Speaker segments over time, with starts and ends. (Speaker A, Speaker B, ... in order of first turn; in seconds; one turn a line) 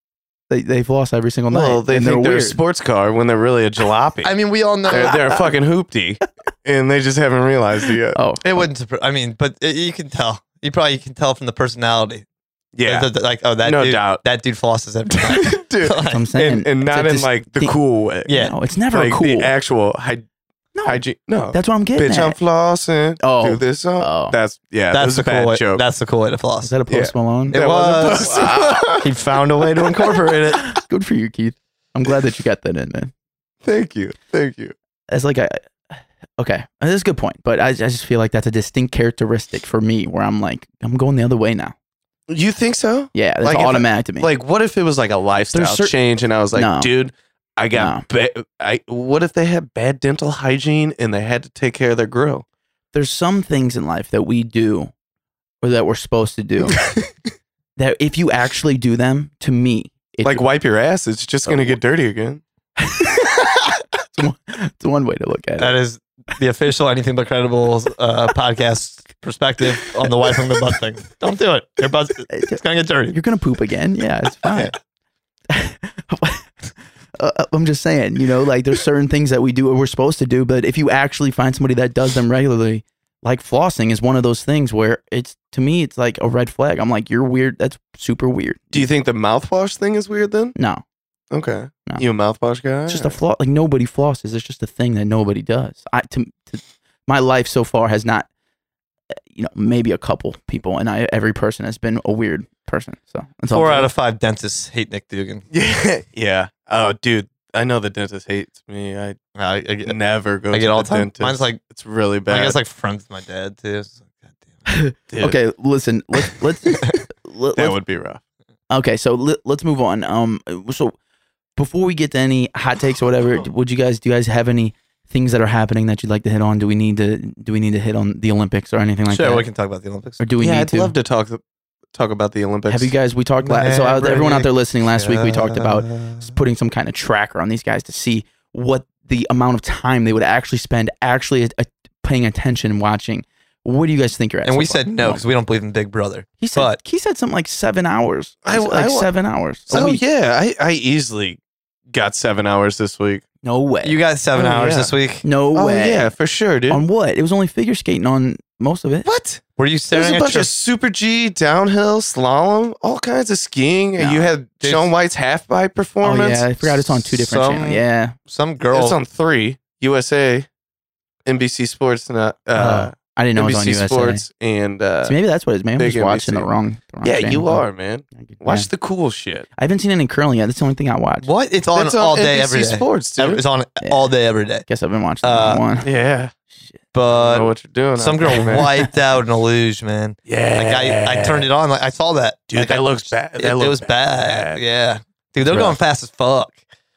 Speaker A: 0.5-2.6
Speaker B: 1.5-4.3
Speaker C: 4.2-5.3
Speaker B: 4.9-8.2
Speaker A: 4.9-5.3
Speaker A: 8.1-8.7
Speaker C: 8.4-12.2
Speaker B: 12.7-13.1
Speaker C: 12.8-16.2
Speaker B: 13.6-14.2
Speaker B: 15.3-18.3
Speaker A: 16.1-17.8
Speaker C: 18.3-18.5
Speaker A: 18.3-19.5
Speaker B: 18.9-20.2
Speaker A: 20.7-22.4
Speaker B: 20.8-25.8
Speaker A: 23.2-24.4
Speaker C: 24.9-26.7
Speaker A: 26.6-28.5
Speaker B: 26.9-29.2
Speaker C: 27.5-30.7
Speaker A: 30.6-33.1
Speaker B: 33.6-34.7
Speaker A: 35.1-41.7
Speaker B: 42.3-52.4
Speaker A: 43.1-44.3
Speaker A: 45.5-45.9
Speaker A: 46.5-46.9
Speaker A: 47.7-48.0
Speaker A: 52.9-54.9
Speaker A: 55.6-56.8
Speaker B: 56.7-57.1
Speaker A: 57.8-60.4
Speaker B: 60.2-62.4
Speaker A: 61.5-61.8
Speaker A: 62.8-65.8
Speaker C: 65.6-73.2
Speaker A: 72.3-74.7
Speaker A: 75.5-88.9
Speaker B: 88.7-90.5
Speaker A: 90.5-90.8
Speaker B: 91.3-93.2
Speaker A: 92.9-98.3
Speaker A: 99.3-103.9
Speaker C: 103.5-105.4
Speaker B: 105.5-109.2
Speaker C: 109.3-110.0
Speaker B: 109.8-112.6
Speaker C: 110.5-111.6
Speaker C: 112.3-114.7
Speaker A: 114.7-117.8
Speaker B: 115.1-115.4
Speaker B: 117.5-118.2
Speaker A: 118.7-120.9
Speaker A: 121.5-129.4
Speaker C: 129.1-130.2
Speaker A: 130.2-130.9
Speaker B: 130.4-131.4
Speaker B: 131.9-132.9
Speaker A: 132.7-145.2
Speaker C: 133.4-136.3
Speaker C: 144.4-146.8
Speaker A: 146.4-150.0
Speaker B: 148.4-149.1
Speaker B: 149.7-151.4
Speaker B: 151.9-153.2
Speaker A: 153.4-154.0
Speaker C: 153.8-155.2
Speaker B: 154.3-154.9
Speaker A: 155.2-156.1
Speaker B: 155.5-156.8
Speaker A: 156.7-159.1
Speaker B: 159.0-159.4
Speaker C: 159.6-160.5
Speaker B: 159.9-166.6
Speaker A: 164.0-164.3
Speaker C: 164.6-164.9
Speaker A: 166.0-168.2
Speaker C: 166.8-169.0
Speaker B: 168.7-170.5
Speaker B: 171.2-175.2
Speaker A: 172.5-174.2
Speaker A: 175.0-177.6
Speaker B: 175.8-176.5
Speaker B: 177.0-179.5
Speaker A: 178.2-178.7
Speaker A: 179.6-181.3
Speaker C: 181.2-184.7
Speaker B: 181.7-183.4
Speaker A: 183.8-184.1
Speaker A: 184.6-185.9
Speaker C: 185.2-185.6
Speaker B: 185.8-186.3
Speaker C: 186.9-196.6
Speaker B: 187.1-188.7
Speaker B: 190.2-191.5
Speaker B: 192.5-194.6